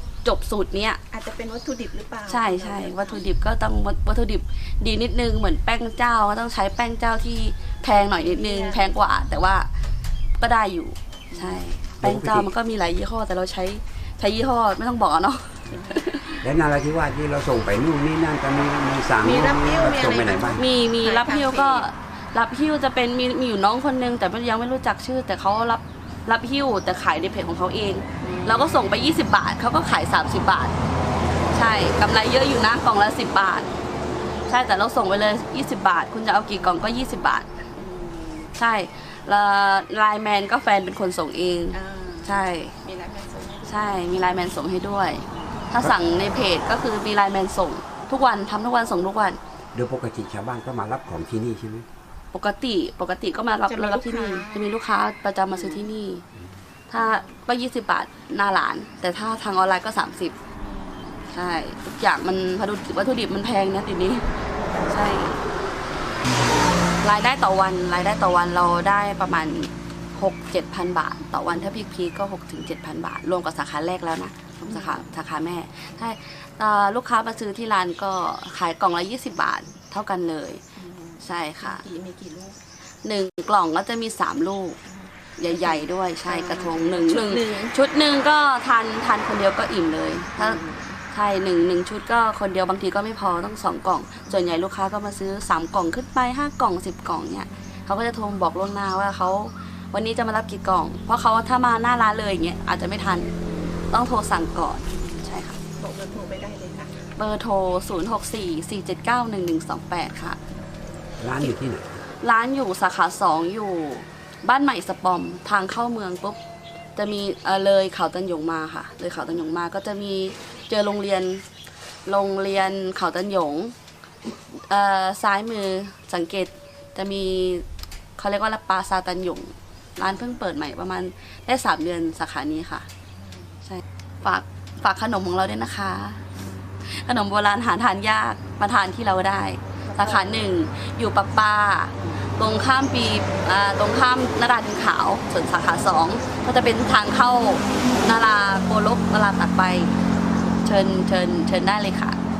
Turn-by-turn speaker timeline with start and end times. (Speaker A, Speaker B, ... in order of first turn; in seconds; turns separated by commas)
Speaker A: 0.2-1.0, Speaker B: 1.1-3.2, Speaker A: 2.3-9.7, Speaker B: 8.1-8.9, Speaker A: 10.4-16.4, Speaker B: 11.3-11.7, Speaker C: 12.0-12.5, Speaker B: 15.7-16.2, Speaker C: 16.4-20.6, Speaker B: 19.2-21.9, Speaker A: 20.6-30.7, Speaker B: 28.2-29.0, Speaker A: 31.5-33.7, Speaker A: 34.5-37.5, Speaker B: 37.8-38.5, Speaker A: 38.5-42.8, Speaker B: 41.7-44.0, Speaker A: 43.7-49.4, Speaker C: 49.7-51.9, Speaker A: 52.3-56.2, Speaker B: 53.7-54.6, Speaker B: 55.5-55.9, Speaker A: 56.9-60.4, Speaker B: 57.0-57.3, Speaker B: 60.6-61.2, Speaker A: 61.3-64.3, Speaker A: 64.9-65.4, Speaker A: 67.0-80.6, Speaker B: 74.7-75.0, Speaker B: 80.8-82.6, Speaker A: 81.2-81.8, Speaker A: 83.0-84.8, Speaker B: 84.9-87.8, Speaker A: 85.4-90.6, Speaker B: 90.3-91.0, Speaker A: 91.1-103.3, Speaker B: 97.5-97.9, Speaker A: 103.9-105.6, Speaker B: 105.8-107.1, Speaker A: 107.2-110.4, Speaker C: 111.2-112.0, Speaker A: 112.2-116.4, Speaker A: 117.0-121.5, Speaker A: 122.1-123.8, Speaker A: 124.5-127.7, Speaker A: 128.2-132.9, Speaker B: 133.2-133.6, Speaker A: 133.6-136.2, Speaker A: 136.9-150.0, Speaker B: 139.9-140.4, Speaker A: 150.6-152.2